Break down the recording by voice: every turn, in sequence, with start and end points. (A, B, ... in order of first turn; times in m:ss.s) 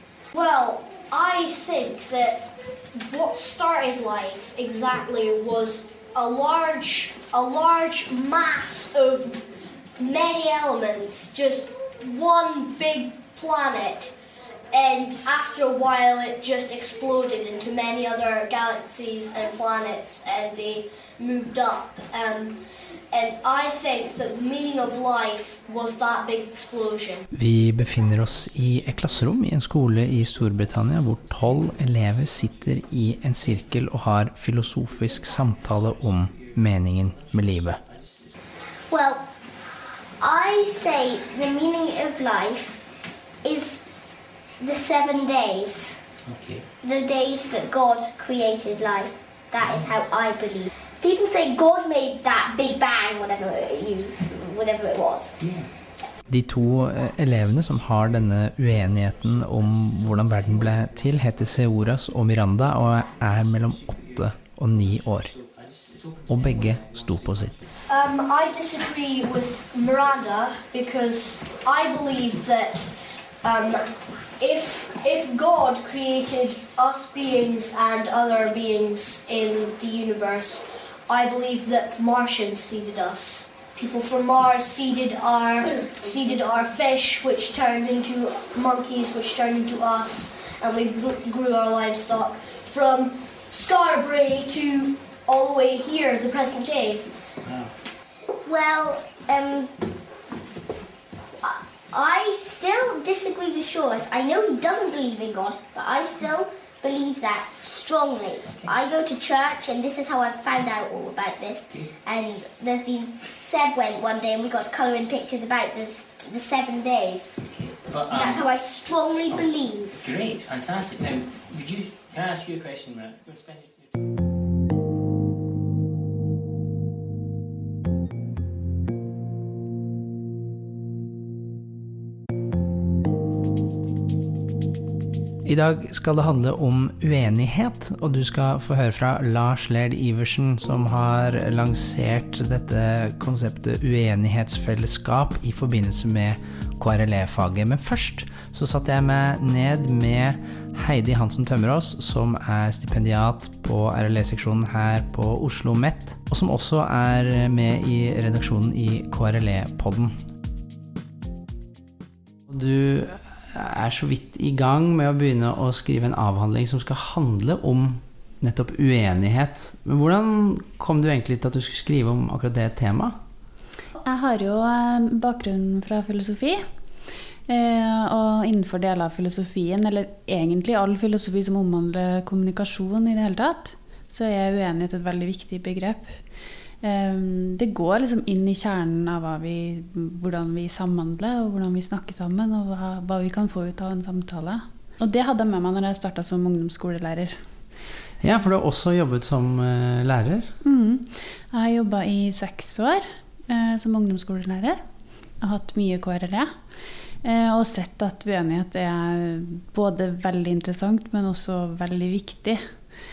0:00.3-0:09.5 A
0:10.0-0:14.1 A
0:14.7-0:27.3 A
0:27.3-0:37.8 B
0:28.4-0:29.3 C
0:29.8-0:33.9 C
0:34.6-0:38.4 C
0:38.9-0:39.2 D
0:40.2-0:42.8 D
0:43.4-0:43.8 D
0:44.6-0:46.0 D
0:46.2-0:46.7 C
0:46.8-0:55.4 D
0:49.6-0:49.9 C
0:55.4-0:55.7 C
0:56.3-1:05.3 B
0:56.7-1:07.8 C
1:06.3-1:07.6 B
1:07.9-1:37.1 A
1:37.4-1:37.7 C
1:38.4-1:39.7 D
1:41.4-1:57.4 D
1:57.5-1:58.5 C
1:58.1-1:59.9 D
1:59.3-2:04.1 C
2:15.4-2:40.2 B
2:42.5-2:53.2 B
2:54.0-2:56.6 E
2:57.5-3:06.2 E
3:06.8-3:17.4 E
3:18.2-3:20.5 B
3:20.6-3:24.8 E
3:25.4-3:26.5 E
3:27.2-3:32.6 E